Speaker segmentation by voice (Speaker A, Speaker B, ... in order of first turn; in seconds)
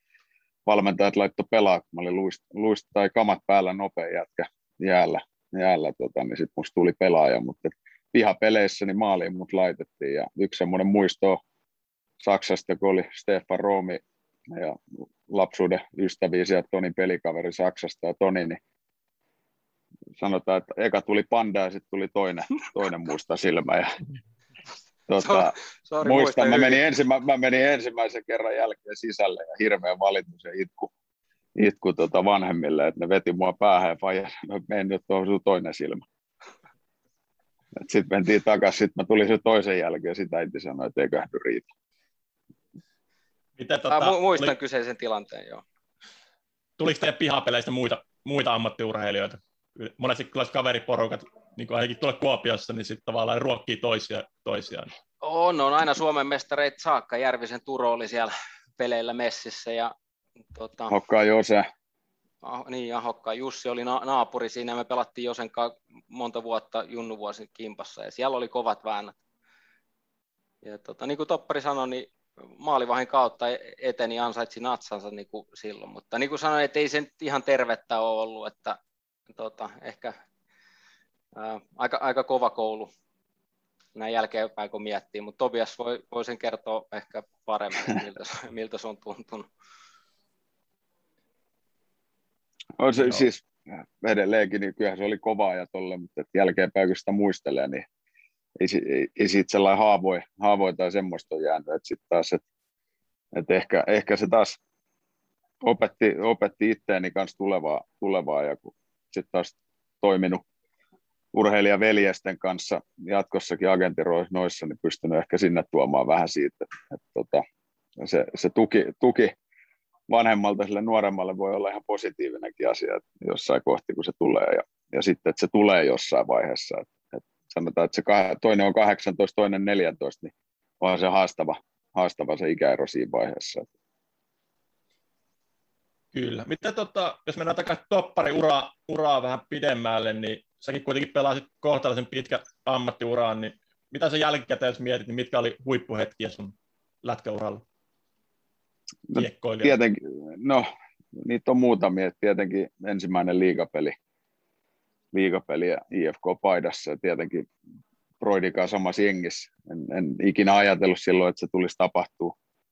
Speaker A: 0.7-11.4, 12.2-18.6, 20.2-24.0, 25.1-30.9, 31.6-36.0, 37.8-41.7, 60.9-61.6, 92.8-97.8, 98.6-102.4, 103.3-104.6, 105.6-110.4, 111.3-117.4, 118.0-119.3, 120.1-133.7, 149.1-150.7, 151.2-153.9, 155.1-157.5, 158.2-162.3
Speaker B: 25.2-26.8, 43.9-45.6, 55.2-59.9, 60.5-60.9, 62.4-69.2, 70.6-78.8, 79.3-80.2, 81.3-82.9, 84.0-89.5
Speaker C: 43.6-44.5, 46.8-54.9, 136.1-146.5, 147.0-147.6, 149.1-149.8